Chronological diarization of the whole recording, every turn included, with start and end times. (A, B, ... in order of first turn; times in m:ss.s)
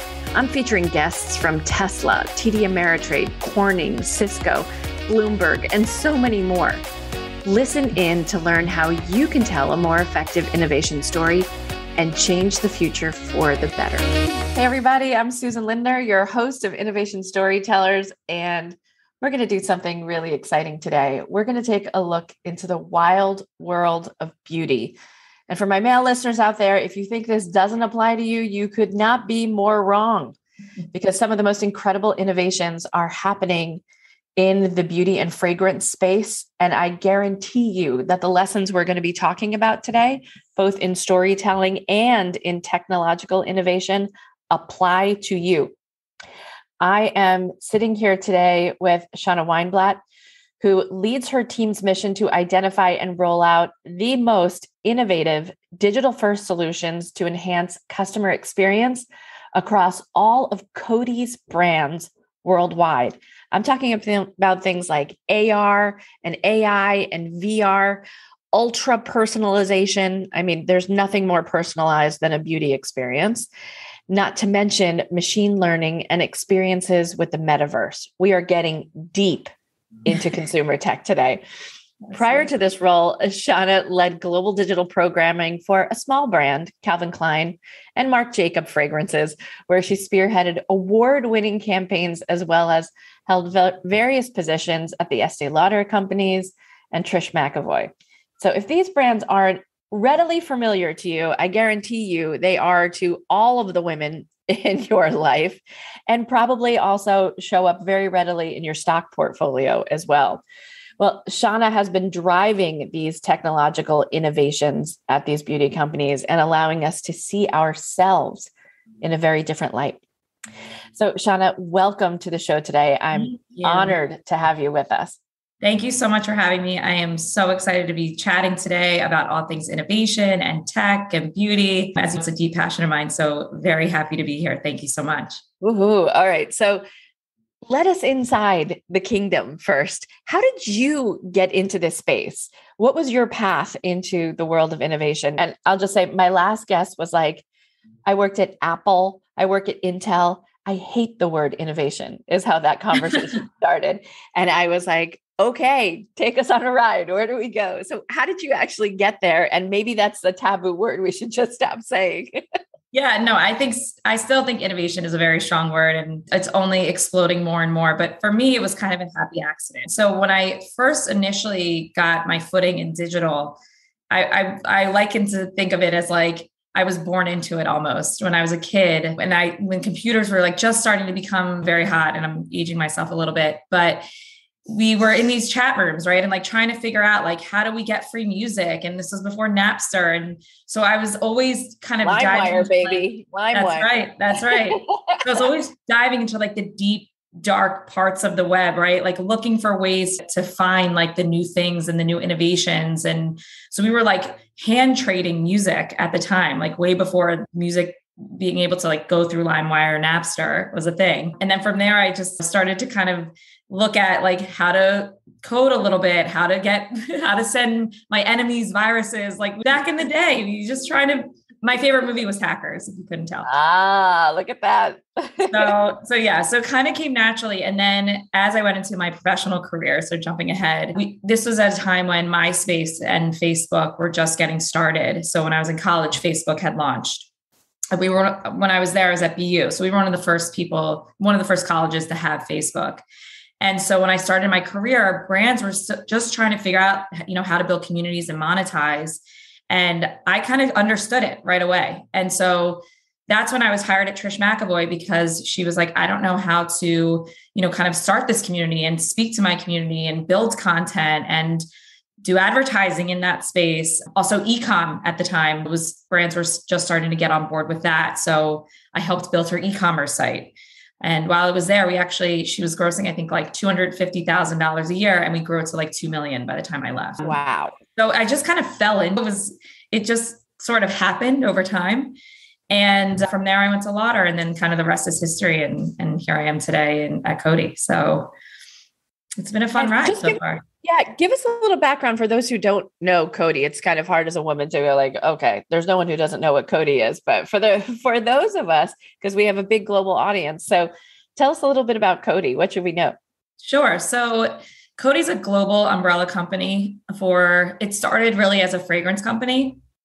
0:00.3-0:06.8 A
0:07.4-0:25.0 A
0:25.5-0:30.4 A
0:30.9-0:33.8 A
0:34.4-0:45.7 A
0:46.8-0:50.0 A
0:50.6-1:13.5 A
1:14.1-1:19.5 A
1:20.0-1:21.4 A
1:22.0-1:22.5 B
1:22.1-1:50.4 A
1:51.0-1:58.5 A
1:59.0-2:00.0 A
2:00.9-2:05.2 A
2:03.1-2:03.9 B
2:05.6-2:15.4 B
2:15.6-2:16.8 A
2:17.6-2:27.4 A
2:28.1-2:42.4 A
2:42.9-2:53.6 B
2:54.1-3:04.0 B
3:04.7-3:43.5 B
3:12.0-3:13.9 A
3:14.4-3:15.2 A
3:43.4-3:45.7 A
3:45.5-3:57.3 B
3:57.9-4:03.0 B
4:03.6-4:21.6 B
4:22.2-4:37.4 B
4:37.2-4:37.8 A
4:38.0-4:42.2 B
4:42.7-4:48.3 B
4:49.4-4:50.6 B
4:49.8-5:03.1 A
5:03.6-5:09.8 B